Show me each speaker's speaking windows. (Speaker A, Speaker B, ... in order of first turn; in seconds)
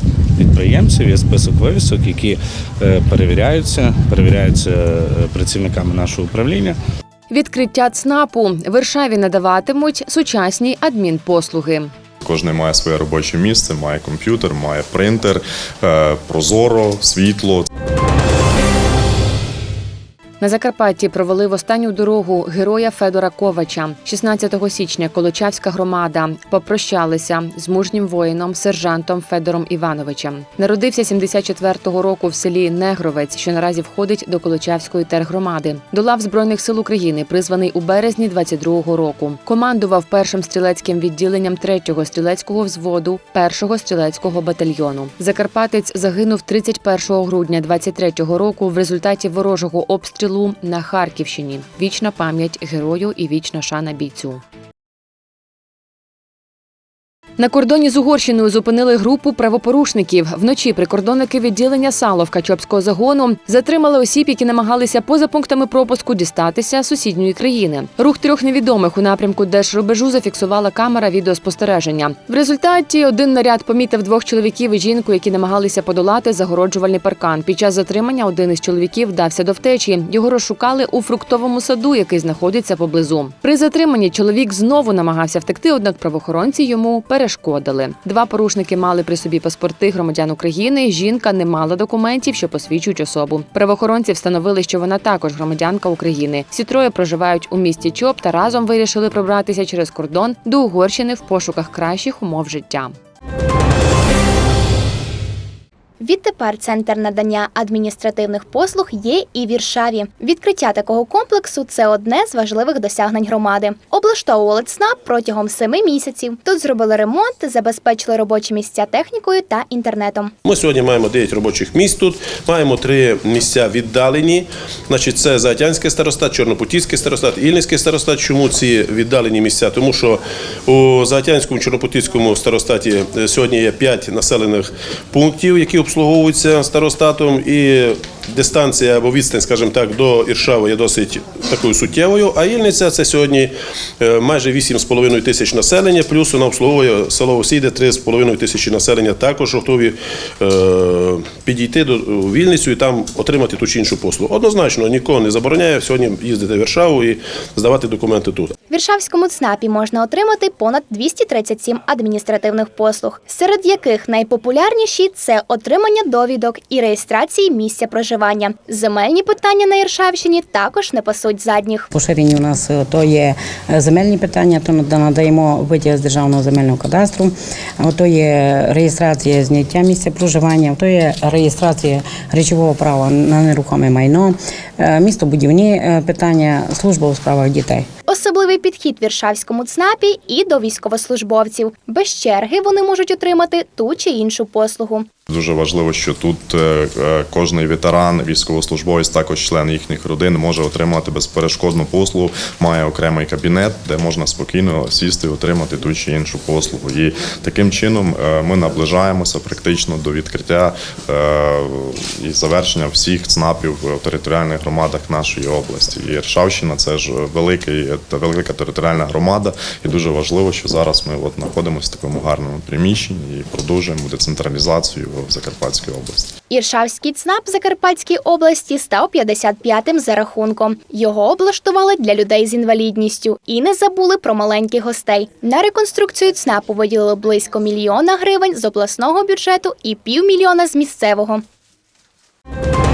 Speaker A: 0.4-6.8
Speaker B: 7.3-11.9, 20.4-54.4, 57.4-102.9
Speaker C: 12.2-17.7, 195.3-226.3
Speaker D: 106.0-120.3, 158.7-171.9, 188.1-195.1, 226.5-241.4
Speaker E: 120.4-158.5
Speaker F: 171.9-187.8